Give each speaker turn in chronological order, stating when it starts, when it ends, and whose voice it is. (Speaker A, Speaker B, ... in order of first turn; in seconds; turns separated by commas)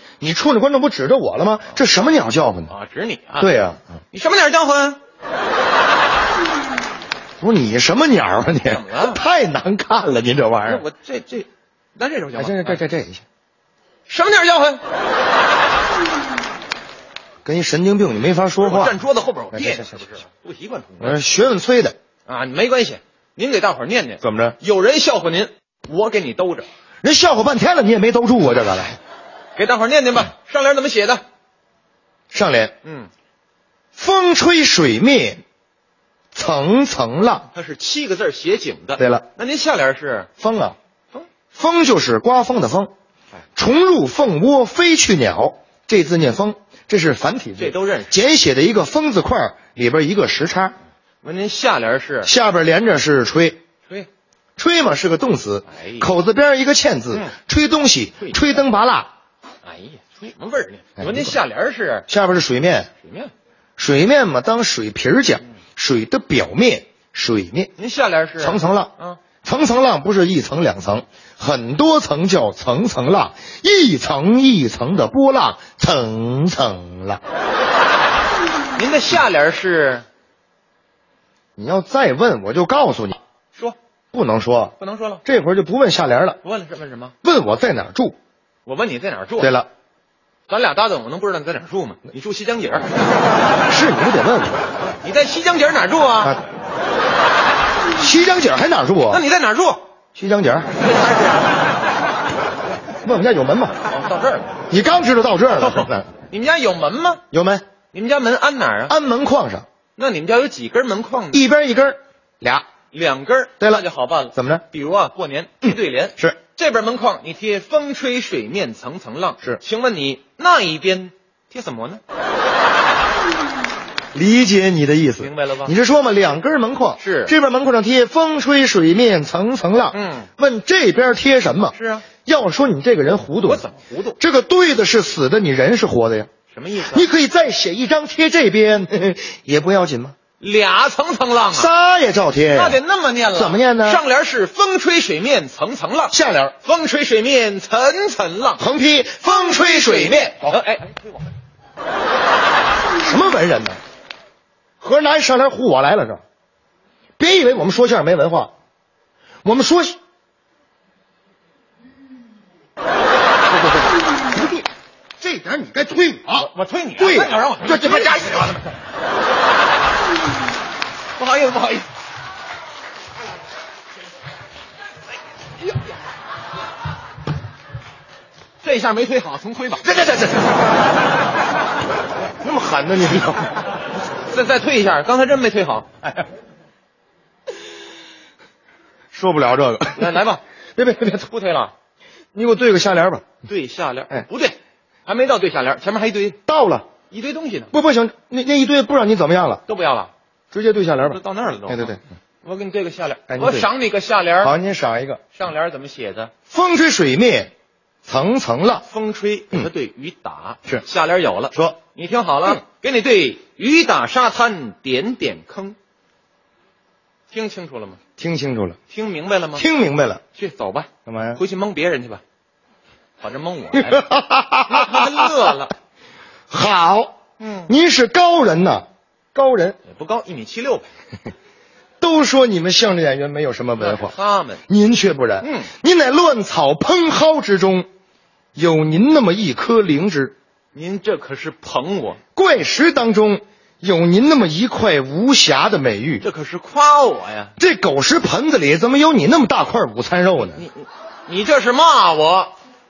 Speaker A: 0.2-2.7, Speaker B: 1.7-2.1, Speaker B: 2.7-3.5, Speaker A: 3.4-3.8, Speaker B: 4.1-5.0, Speaker A: 7.4-10.8, Speaker B: 8.6-9.2, Speaker B: 10.6-12.8, Speaker A: 12.3-13.2, Speaker B: 14.1-14.8, Speaker A: 17.4-19.0, Speaker B: 18.6-21.2, Speaker A: 19.5-20.0, Speaker A: 21.0-21.9, Speaker B: 22.2-26.7, Speaker A: 24.2-24.6, Speaker A: 27.0-28.9, Speaker B: 29.5-31.2, Speaker A: 32.3-32.7, Speaker B: 32.8-33.1, Speaker A: 33.9-35.4, Speaker A: 36.3-37.5, Speaker B: 37.5-40.3, Speaker A: 39.0-39.2, Speaker A: 40.4-40.8, Speaker A: 41.5-42.9, Speaker A: 43.5-50.8, Speaker B: 47.6-48.2, Speaker B: 51.2-52.3, Speaker A: 52.2-53.6, Speaker A: 54.6-59.1, Speaker B: 55.6-56.1, Speaker B: 58.2-58.6, Speaker B: 59.6-62.1, Speaker A: 61.0-61.4, Speaker A: 62.1-62.9, Speaker B: 63.0-63.3, Speaker A: 63.8-67.7, Speaker B: 67.8-69.2, Speaker A: 68.4-77.2, Speaker B: 78.7-80.0, Speaker A: 81.6-83.2, Speaker A: 84.1-86.4, Speaker B: 84.8-85.2, Speaker B: 86.4-87.1, Speaker A: 87.2-88.2, Speaker B: 88.7-89.5, Speaker A: 89.4-89.7, Speaker B: 90.5-92.9, Speaker A: 93.7-94.6, Speaker B: 95.0-96.3, Speaker A: 98.0-99.2, Speaker B: 99.1-99.8, Speaker A: 100.1-100.7, Speaker B: 100.7-101.5, Speaker A: 103.0-103.8, Speaker B: 103.8-104.5, Speaker A: 104.7-106.1, Speaker B: 105.6-107.2, Speaker A: 107.3-107.7, Speaker B: 107.9-109.0, Speaker A: 108.9-109.7, Speaker B: 110.0-111.4, Speaker A: 111.3-112.7, Speaker B: 112.9-122.0, Speaker A: 113.6-114.6, Speaker A: 115.6-116.4, Speaker A: 124.1-133.7, Speaker B: 125.2-125.8, Speaker B: 127.0-127.3, Speaker B: 129.9-130.3, Speaker B: 131.7-132.1, Speaker B: 133.4-134.2, Speaker A: 134.2-140.2, Speaker B: 136.5-137.1, Speaker B: 140.4-141.7, Speaker A: 141.5-142.8, Speaker B: 142.5-148.6, Speaker A: 143.3-144.0, Speaker A: 146.1-146.5, Speaker A: 148.6-150.6, Speaker B: 149.2-151.2, Speaker A: 153.0-153.8, Speaker A: 154.8-156.2, Speaker A: 157.2-158.5, Speaker A: 159.4-160.0, Speaker A: 164.3-164.6, Speaker A: 165.2-166.4, Speaker B: 166.3-168.9, Speaker A: 167.0-168.5, Speaker B: 171.2-171.9, Speaker B: 178.6-180.1, Speaker A: 179.8-180.4, Speaker A: 182.4-183.6, Speaker B: 184.2-186.0, Speaker A: 189.1-190.2, Speaker B: 189.9-190.4, Speaker A: 190.8-191.2, Speaker B: 191.1-191.7, Speaker A: 192.3-193.3, Speaker B: 193.4-196.4, Speaker A: 196.4-196.9, Speaker B: 197.1-197.7, Speaker A: 197.7-199.6, Speaker B: 199.7-200.1, Speaker A: 200.5-202.0, Speaker B: 201.0-204.6, Speaker A: 203.3-203.7, Speaker A: 204.4-205.2, Speaker B: 205.3-206.3, Speaker A: 206.5-207.5, Speaker A: 208.0-208.8, Speaker B: 208.8-215.8, Speaker B: 217.3-218.0, Speaker A: 218.2-218.8, Speaker B: 218.9-219.7, Speaker A: 219.5-220.2, Speaker B: 220.3-222.2, Speaker A: 221.1-221.4, Speaker B: 223.2-224.1, Speaker A: 223.7-225.1, Speaker B: 224.7-225.7, Speaker A: 226.5-229.8, Speaker B: 227.4-227.7, Speaker B: 229.8-230.9, Speaker A: 232.0-234.1, Speaker B: 233.8-234.6, Speaker A: 234.7-237.9, Speaker B: 235.4-235.7, Speaker A: 238.5-240.3, Speaker B: 240.7-242.2, Speaker A: 242.3-246.2, Speaker B: 246.2-247.5, Speaker A: 247.6-250.6, Speaker B: 250.5-252.5